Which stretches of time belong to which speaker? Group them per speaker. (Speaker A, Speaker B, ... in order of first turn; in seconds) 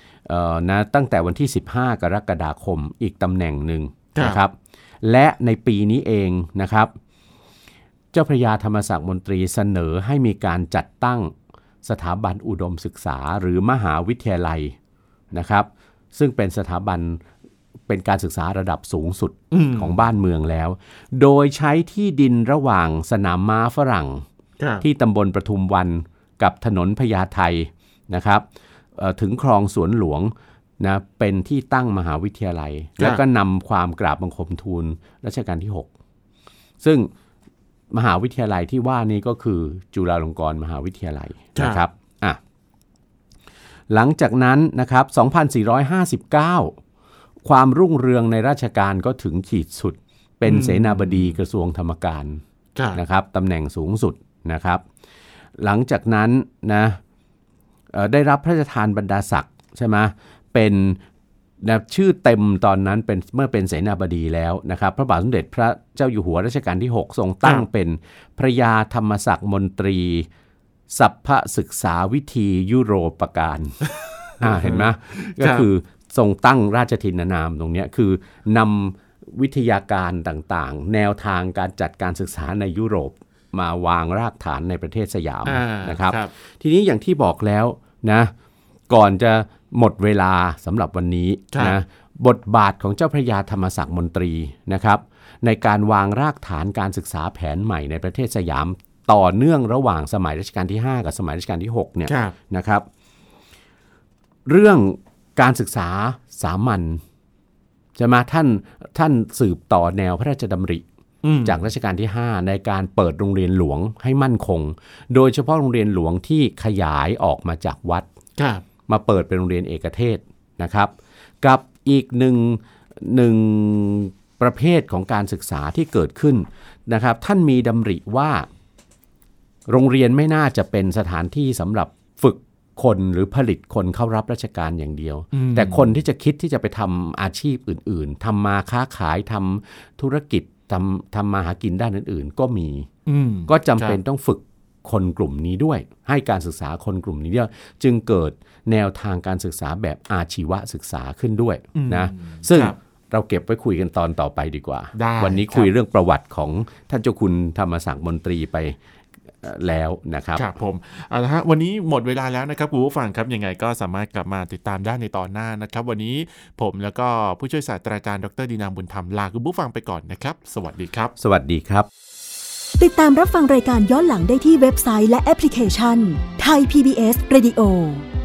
Speaker A: 0.3-6.9, 8.1-11.3, 11.8-14.8, 15.3-17.2, 17.9-24.2, 24.8-28.4, 29.0-35.9, 36.8-37.1, 37.9-42.4, 43.9-46.8, 47.4-52.4, 52.9-54.9, 55.6-57.0, 57.9-61.0, 61.6-70.3, 70.9-73.8, 74.4-88.3, 88.9-102.9, 104.5-107.0, 108.0-110.8, 111.5-118.1, 118.9-128.5, 129.7-142.9, 143.5-158.8, 159.4-160.5, 171.2-171.9
Speaker B: 4.2-4.4, 19.5-20.0, 24.6-24.8, 41.5-41.9, 50.4-51.4, 52.8-53.0, 74.4-75.7, 85.5-86.3, 91.5-91.8, 102.1-102.4, 111.2-111.7, 118.4-118.7, 135.3-136.0, 143.1-144.0, 151.8-152.8, 154.9-155.7, 160.3-171.1
Speaker C: 172.8-178.1